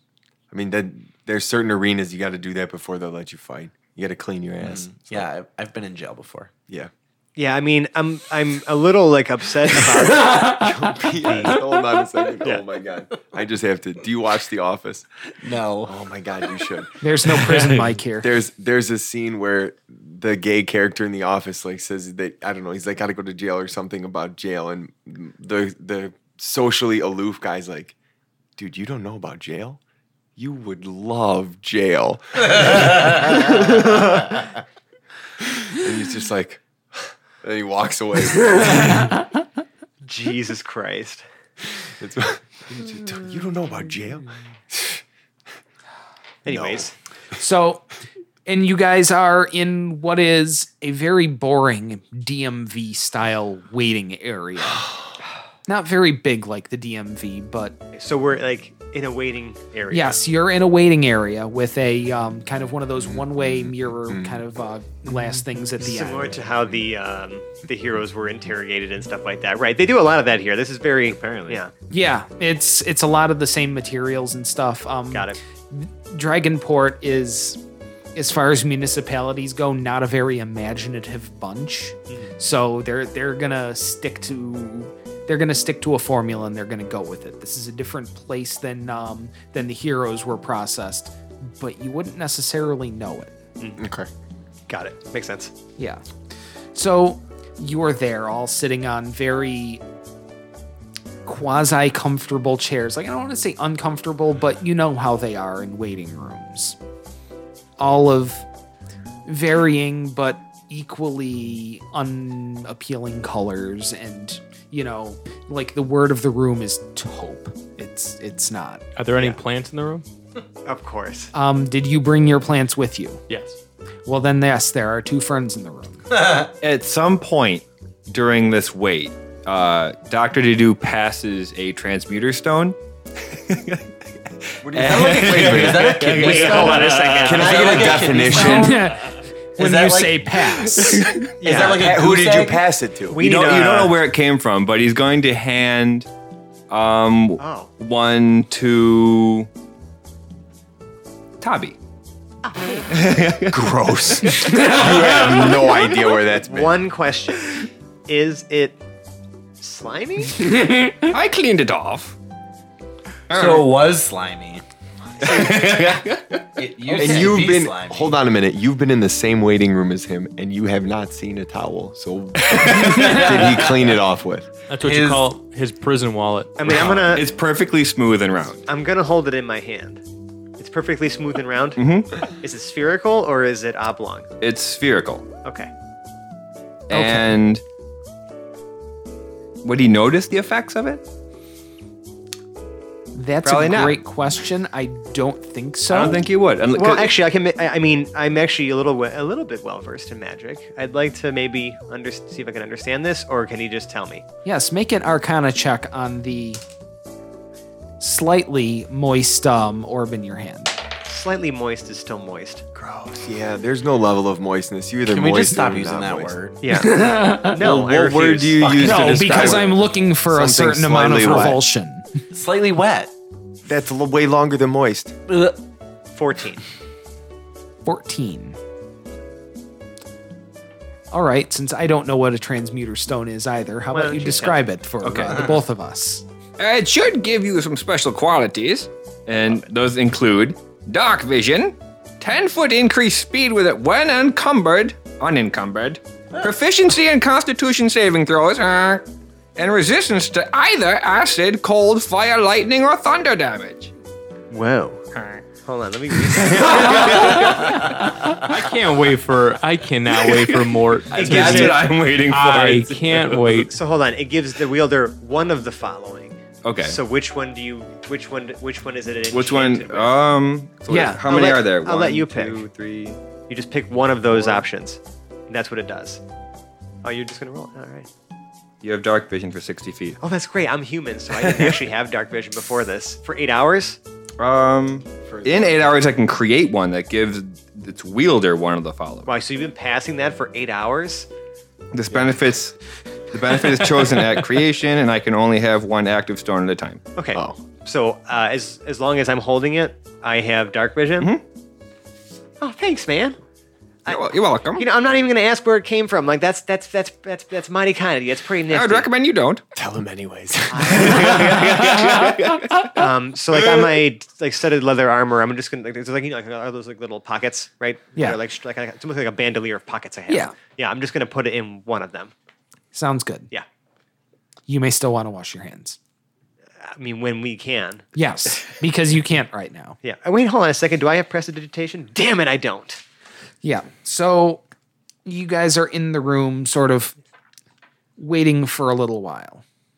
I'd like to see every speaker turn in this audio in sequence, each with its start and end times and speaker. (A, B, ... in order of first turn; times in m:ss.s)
0:00.5-0:05.3 A
0:04.6-0:06.5 B
0:07.4-0:10.7 C
0:10.4-0:15.1 A
0:11.2-0:11.6 C
0:15.4-0:16.0 B
0:15.8-0:17.6 A
0:17.0-0:18.3 D
0:18.2-0:27.9 A
0:28.6-0:29.8 A
0:30.4-0:34.5 A
0:32.6-0:33.4 B
0:35.6-0:39.2 A
0:40.0-0:41.2 C
0:42.0-0:45.0 A
0:46.4-0:46.9 C
0:46.4-0:46.9 A
0:47.4-0:47.8 D
0:48.4-0:54.9 D
0:55.6-0:57.8 D
0:57.9-1:00.2 C
0:59.9-1:06.4 D
1:03.2-1:03.6 A
1:04.1-1:04.3 A
1:05.8-1:11.7 C
1:11.1-1:11.6 E
1:11.9-1:17.6 D
1:15.1-1:15.4 C
1:18.1-1:33.4 D
1:33.8-1:34.1 A
1:34.7-1:35.5 C
1:35.8-1:36.0 D
1:36.7-1:39.8 D
1:41.2-1:46.8 D
1:47.8-1:48.4 D
1:49.2-1:58.8 D
1:59.0-2:00.0 F
2:00.6-2:01.3 C
2:01.3-2:03.2 D
2:03.3-2:03.6 F
2:04.0-2:06.1 D
2:06.1-2:06.5 B
2:06.6-2:12.8 E
2:13.3-2:13.8 E
2:14.6-2:18.8 A
2:14.7-2:18.9 B
2:14.7-2:17.9 E
2:16.0-2:18.1 C
2:18.3-2:21.0 D
2:19.6-2:22.6 B
2:20.8-2:21.3 E
2:21.4-2:21.9 C
2:21.4-2:23.2 A
2:23.1-2:24.0 C
2:23.2-2:26.1 E
2:26.7-2:29.5 E
2:27.4-2:27.7 C
2:31.4-2:31.8 E
2:32.9-2:35.3 E
2:33.5-2:36.8 A
2:36.4-2:38.8 C
2:39.6-2:40.4 C
2:40.5-2:41.1 D
2:40.9-2:42.2 E
2:43.3-2:43.9 E
2:43.3-2:44.6 B
2:45.2-2:46.4 E
2:45.4-2:45.9 B
2:46.6-2:48.2 B
2:46.9-2:54.5 A
2:47.0-2:47.2 E
2:52.4-2:53.7 E
2:54.7-2:56.6 F
2:54.8-2:55.3 B
2:56.6-2:57.3 C
2:56.6-2:58.6 E
2:58.7-3:00.0 C
3:00.6-3:04.3 C
3:01.8-3:02.2 E
3:04.4-3:05.2 E
3:05.4-3:05.7 C
3:06.9-3:07.6 E
3:06.9-3:07.4 D
3:09.6-3:11.0 E
3:13.1-3:16.2 D
3:13.4-3:14.0 E
3:15.9-3:17.1 E
3:16.7-3:24.2 C
3:24.4-3:26.6 D
3:28.0-3:30.8 D
3:31.0-3:32.6 C
3:32.8-3:36.4 A
3:35.0-3:36.6 B
3:36.6-3:39.1 C
3:36.7-3:37.6 D
3:37.5-3:41.6 A
3:38.8-3:42.1 D
3:39.1-3:39.5 E
3:42.3-3:43.1 B
3:43.6-3:45.2 A
3:45.3-3:45.6 B
3:46.1-3:46.6 C
3:47.8-3:48.6 D
3:51.1-3:56.2 D
3:53.9-3:54.6 C
3:55.0-3:55.5 E
3:56.6-4:13.9 E
4:14.5-4:15.0 C
4:15.1-4:15.4 E
4:15.6-4:17.6 C
4:16.1-4:18.1 E
4:17.1-4:23.7 F
4:20.1-4:23.7 E
4:21.1-4:22.0 C
4:23.7-4:30.2 C
4:26.6-4:27.0 E
4:29.3-4:33.2 E
4:30.9-4:31.2 D
4:31.2-4:32.6 C
4:33.5-4:36.2 C
4:34.3-4:34.6 E
4:37.0-4:38.1 C
4:38.8-4:40.2 E
4:40.2-4:44.0 C
4:44.4-4:49.3 E
4:45.3-4:45.8 B
4:49.2-4:51.3 C
4:51.9-4:52.8 E
4:53.3-4:57.0 E
4:57.2-5:01.3 C
4:57.3-4:57.6 A
5:02.6-5:03.4 C
5:04.0-5:09.1 C
5:04.1-5:04.9 E
5:08.7-5:09.6 E
5:09.7-5:12.3 A
5:10.7-5:22.3 C
5:11.1-5:12.9 E
5:20.3-5:20.5 D
5:22.9-5:23.5 D
5:24.7-5:26.0 D
5:26.8-5:28.0 C
5:28.1-5:30.0 D
5:30.0-5:33.0 C
5:33.6-5:34.6 D
5:35.2-5:37.2 D
5:38.2-5:39.6 D